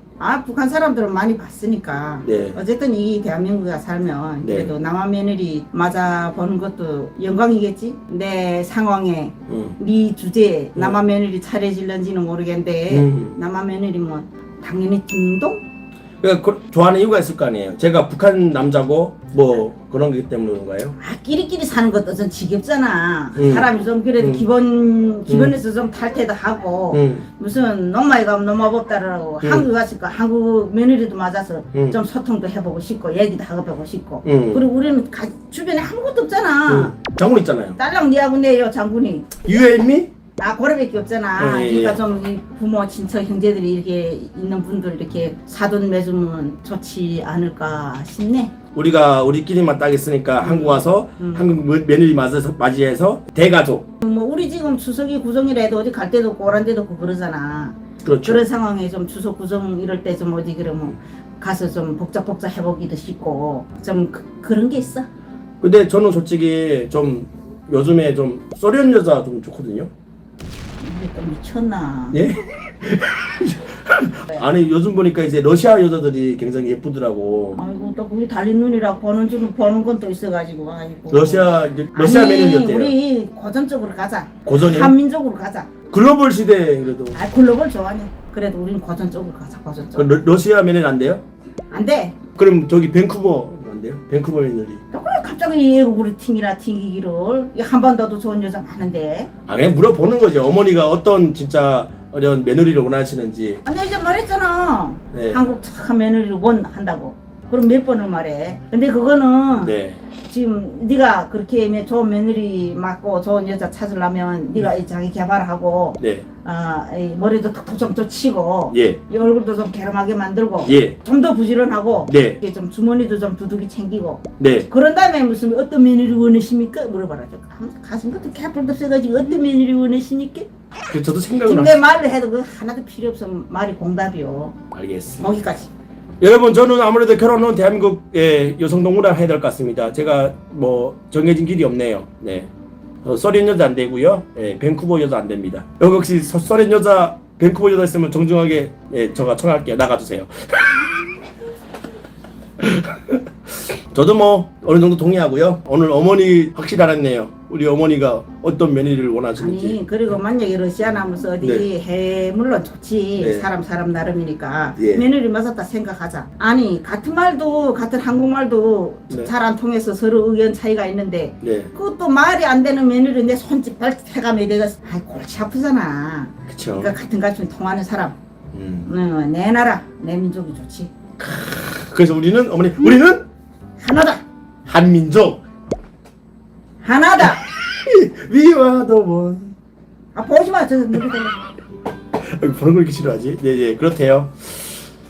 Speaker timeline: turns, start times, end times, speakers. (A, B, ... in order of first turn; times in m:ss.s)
0:00.2-0:15.6 A
0:02.2-0:02.6 B
0:04.4-0:04.7 B
0:09.5-0:09.8 B
0:12.9-0:13.4 B
0:16.2-0:21.0 B
0:21.0-0:37.0 A
0:23.4-0:23.7 B
0:25.3-0:25.5 B
0:26.9-0:27.2 B
0:31.7-0:32.0 B
0:34.2-0:34.6 B
0:36.7-0:37.8 B
0:37.8-0:39.4 A
0:39.4-0:40.1 B
0:40.4-0:48.5 A
0:41.4-0:42.0 B
0:48.7-0:53.9 B
0:50.4-0:51.5 A
0:54.0-1:05.1 A
0:58.0-0:58.4 B
1:05.6-1:09.9 B
1:10.8-1:12.2 A
1:12.1-1:17.6 B
1:17.5-1:25.7 A
1:21.1-1:22.9 B
1:24.4-1:24.9 B
1:25.9-1:27.2 B
1:27.1-1:30.1 A
1:29.9-1:31.2 B
1:31.7-1:32.2 A
1:32.4-1:34.8 B
1:34.9-1:39.3 A
1:39.5-1:43.6 B
1:43.6-1:49.7 A
1:45.1-1:45.4 B
1:49.6-1:50.0 B
1:50.3-2:10.5 A
1:56.0-1:56.2 B
1:58.7-1:59.0 B
2:00.6-2:01.0 B
2:02.1-2:02.4 B
2:04.4-2:04.7 B
2:10.9-2:11.8 B
2:11.4-2:14.6 A
2:14.7-2:15.3 B
2:15.2-2:15.7 A
2:16.2-2:22.5 B
2:23.0-2:31.0 B
2:32.6-2:33.2 B
2:33.9-2:39.8 B
2:39.4-2:58.1 A
2:43.2-2:43.4 B
2:44.8-2:45.0 B
2:51.4-2:51.7 B
2:56.5-2:56.9 B
2:58.5-2:58.9 B
2:58.8-3:00.9 A
3:01.2-3:03.2 B
3:03.8-3:04.2 A
3:04.6-3:05.4 B
3:06.8-3:07.4 A
3:07.2-3:09.5 B
3:10.1-3:11.4 A
3:12.2-3:14.6 B